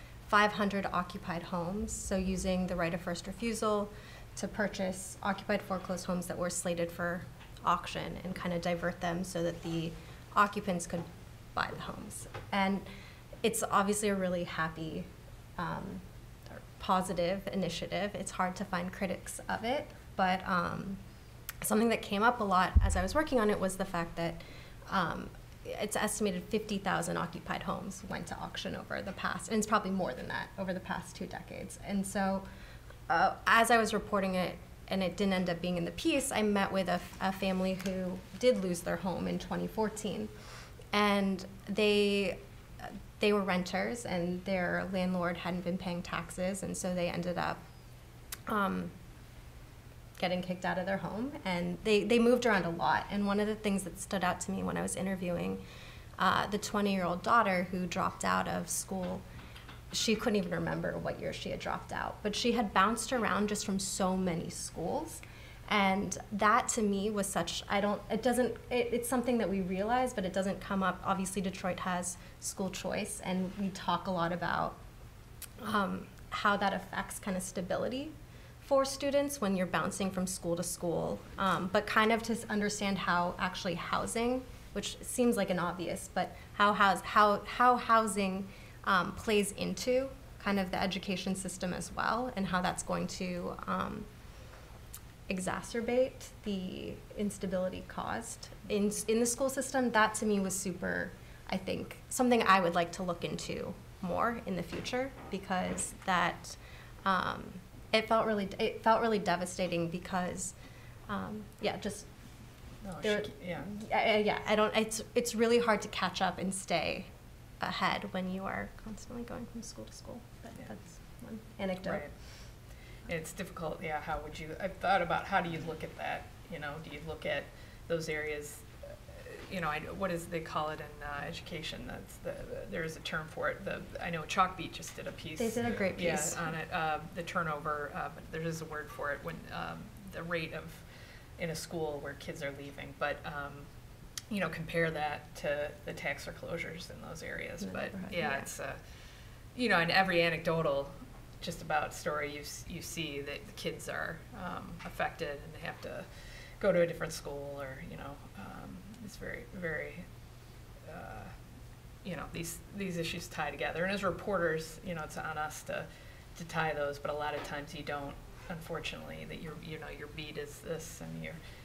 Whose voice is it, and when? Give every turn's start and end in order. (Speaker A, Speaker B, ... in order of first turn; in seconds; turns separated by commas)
Speaker A: 0.3-12.8, Speaker A: 13.4-21.0, Speaker A: 21.6-32.5, Speaker A: 33.1-40.3, Speaker A: 40.9-47.6, Speaker A: 48.5-48.9, Speaker A: 50.2-55.6, Speaker A: 56.2-59.2, Speaker A: 59.9-74.8, Speaker A: 75.6-94.1, Speaker A: 95.3-110.5, Speaker A: 111.1-112.1, Speaker B: 112.8-113.7, Speaker A: 113.0-117.1, Speaker A: 117.6-122.1, Speaker B: 121.8-128.7, Speaker B: 129.2-140.8, Speaker A: 135.4-136.6, Speaker B: 141.4-143.7, Speaker B: 144.3-148.8, Speaker A: 147.6-148.5, Speaker B: 149.5-156.1, Speaker B: 156.6-160.1, Speaker B: 160.8-161.3, Speaker B: 162.0-171.4